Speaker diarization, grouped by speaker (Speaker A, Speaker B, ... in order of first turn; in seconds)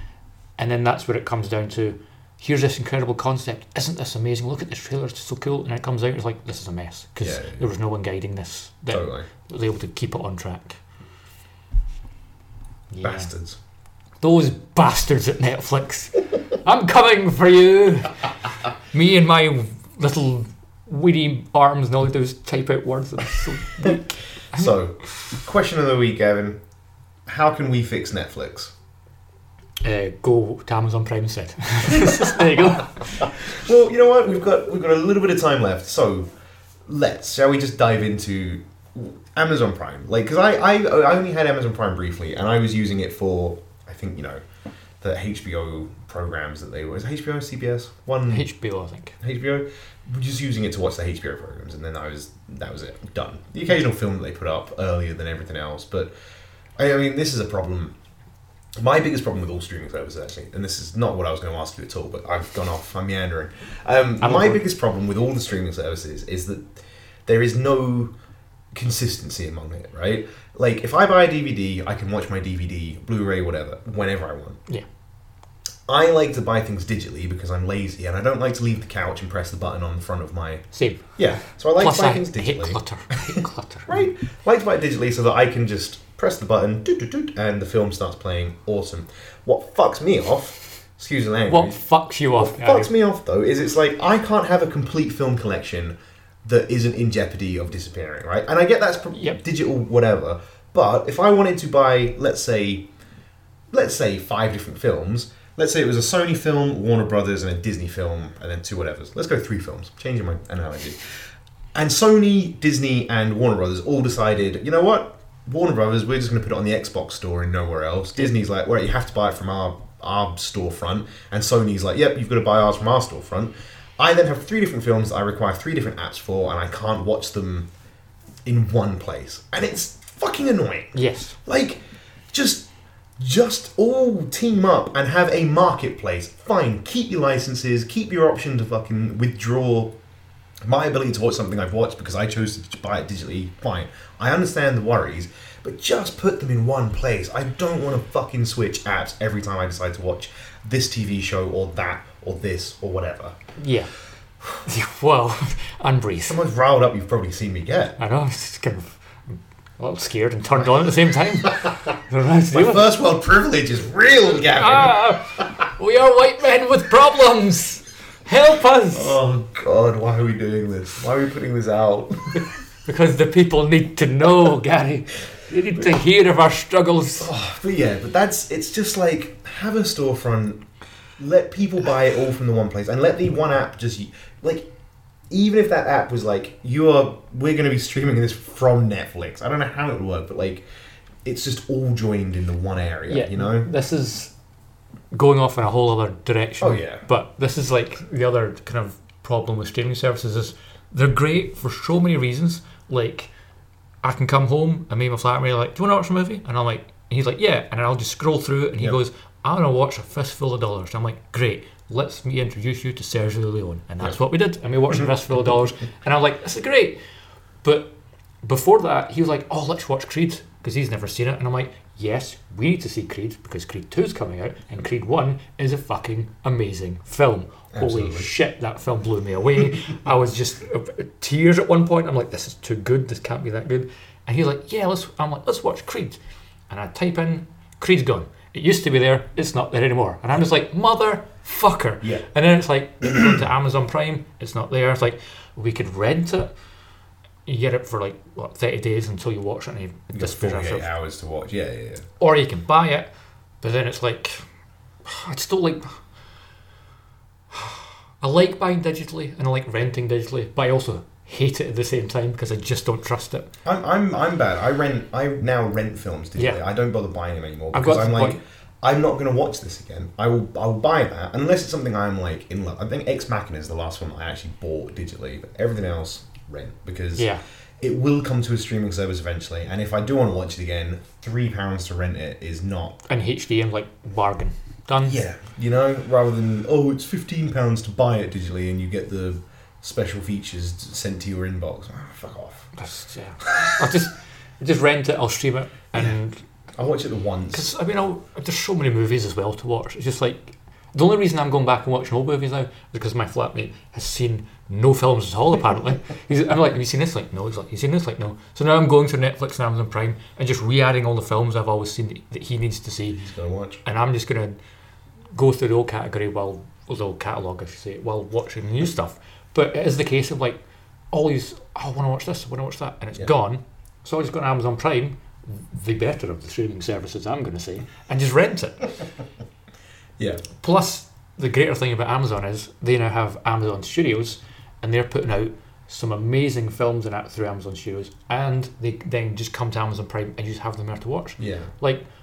Speaker A: 0.6-10.8, 12.9-13.3, 14.2-18.3, 18.9-24.8, 29.8-33.5, 48.3-49.2, 64.2-64.6, 80.7-81.2, 81.8-84.0, 91.5-92.9, 99.1-99.4, 130.9-131.4, 153.6-153.9, 154.6-156.4, 158.0-162.9, 164.5-169.2, 172.3-177.3, 193.1-194.3, 195.1-203.3, 204.0-217.0, 217.6-236.2, 236.7-246.5, 247.4-250.9, 252.2-253.1, 253.6-254.4, 255.0-256.0, 257.5-263.5, 267.7-268.4, 277.1-277.4, 283.1-285.2, 292.8-296.4, 297.5-313.2, 313.8-314.6, 315.3-320.6, 321.1-328.9, 330.5-342.0
Speaker B: 7.2-7.6, 8.9-9.3, 13.0-13.6, 24.5-26.6, 27.2-28.7, 32.0-32.4, 33.2-36.3, 36.9-44.4, 45.0-48.5, 49.2-56.1, 56.8-57.9, 58.8-68.1, 68.7-74.6, 75.9-82.8, 83.9-91.8, 92.4-102.9, 103.7-111.2, 111.7-127.7, 128.4-132.7, 133.2-139.9, 140.6-153.3, 156.3-158.0, 162.5-165.4, 168.9-172.4, 177.2-180.6, 181.2-184.7, 185.3-190.7, 191.2-193.7, 196.6-197.0, 227.7-228.3, 242.0-242.3, 243.0-243.4, 250.1-252.1, 263.6-283.0, 285.0-292.7, 293.4-293.9, 296.8-297.7, 313.1-313.8, 330.2-330.4, 341.4-341.7